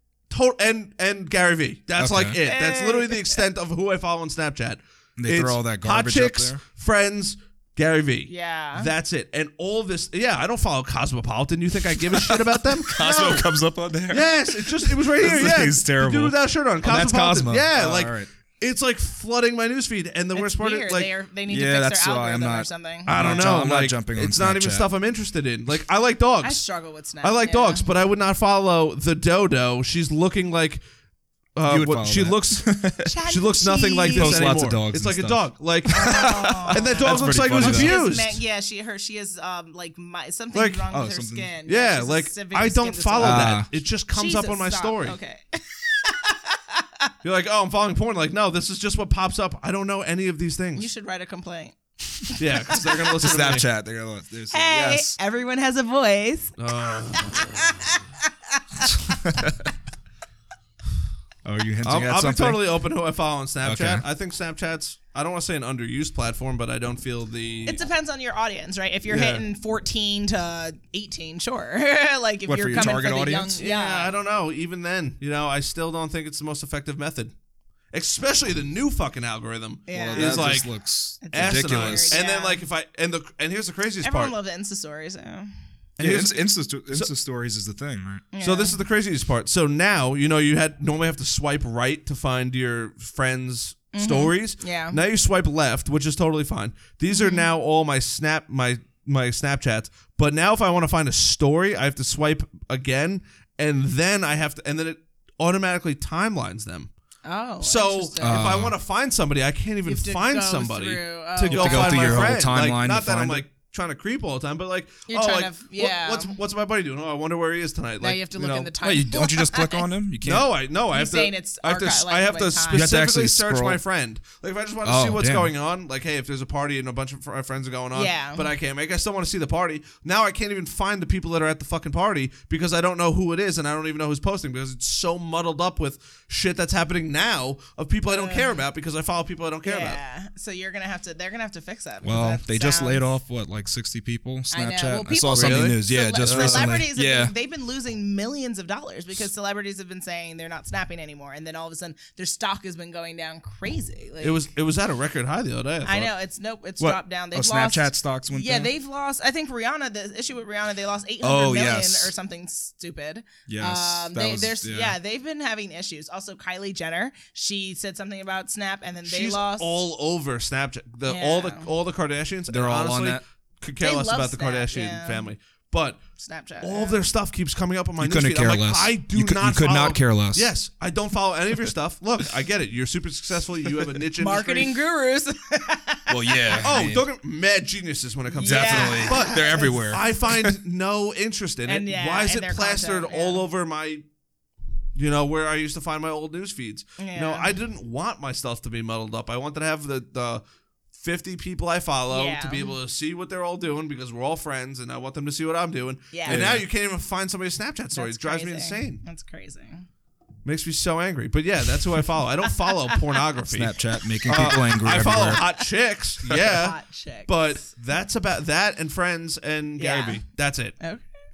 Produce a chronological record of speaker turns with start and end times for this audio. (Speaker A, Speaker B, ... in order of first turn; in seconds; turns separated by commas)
Speaker A: 0.3-13.5, Speaker B: 2.0-2.4, Speaker C: 2.4-3.4, Speaker B: 5.2-6.6, Speaker C: 8.3-8.9, Speaker B: 12.1-18.3, Speaker A: 14.1-21.1, Speaker C: 20.3-23.5, Speaker B: 21.5-24.9, Speaker A: 23.1-26.7, Speaker C: 26.4-27.9, Speaker A: 27.2-30.8, Speaker A: 31.6-32.7, Speaker B: 31.6-33.1, Speaker C: 33.0-34.5, Speaker A: 33.2-38.4, Speaker B: 34.1-38.0, Speaker C: 35.9-47.1, Speaker A: 40.5-40.8, Speaker B: 40.9-41.5, Speaker A: 41.6-45.2, Speaker B: 43.2-43.7, Speaker A: 47.2-50.9, Speaker C: 50.7-53.1, Speaker A: 52.4-53.7, Speaker B: 53.1-55.2, Speaker C: 54.5-59.4, Speaker A: 56.6-57.9, Speaker B: 59.2-59.7, Speaker B: 61.4-62.6, Speaker A: 61.8-67.8, Speaker B: 63.6-64.0, Speaker C: 67.7-74.1, Speaker A: 69.1-69.4, Speaker B: 72.5-73.6, Speaker A: 73.6-77.3, Speaker A: 77.9-80.7, Speaker C: 79.9-80.7, Speaker B: 79.9-82.2, Speaker C: 81.2-82.6, Speaker A: 81.3-84.3, Speaker C: 84.0-85.5, Speaker A: 86.0-87.1, Speaker B: 86.0-88.2, Speaker C: 88.3-88.8, Speaker A: 88.4-106.9, Speaker C: 93.9-95.0, Speaker C: 97.1-97.5, Speaker C: 107.2-108.6, Speaker A: 107.6-118.7, Speaker B: 108.2-108.8, Speaker C: 109.8-112.3, Speaker B: 111.4-113.4, Speaker C: 115.1-116.4, Speaker C: 118.0-119.9, Speaker B: 118.8-120.5, Speaker A: 120.2-140.0, Speaker C: 120.9-122.9, Speaker B: 122.7-123.8, Speaker B: 124.8-125.5, Speaker C: 127.9-128.5, Speaker C: 138.1-138.6, Speaker C: 139.6-143.0, Speaker B: 142.0-147.3, Speaker C: 144.5-154.4, Speaker A: 145.3-146.8, Speaker A: 154.2-156.1, Speaker C: 155.8-169.9, Speaker B: 156.8-158.7, Speaker B: 161.2-162.1, Speaker B: 163.5-165.0, Speaker A: 169.0-176.0, Speaker C: 171.1-171.7, Speaker B: 172.5-173.2, Speaker C: 173.8-175.3, Speaker C: 176.2-177.0, Speaker A: 176.6-184.8, Speaker B: 178.0-180.5, Speaker C: 184.2-186.6, Speaker B: 186.1-187.0, Speaker A: 186.6-194.0, Speaker C: 188.3-190.0, Speaker B: 188.4-190.6, Speaker C: 191.7-193.4, Speaker A: 194.9-200.4, Speaker C: 197.0-197.5, Speaker A: 200.9-209.0, Speaker C: 202.1-202.7, Speaker C: 206.1-206.5, Speaker B: 206.3-206.7, Speaker C: 207.9-209.9, Speaker A: 210.4-220.8, Speaker C: 212.6-213.0, Speaker B: 213.5-215.4, Speaker C: 216.3-217.5, Speaker C: 219.8-220.2, Speaker C: 220.8-221.1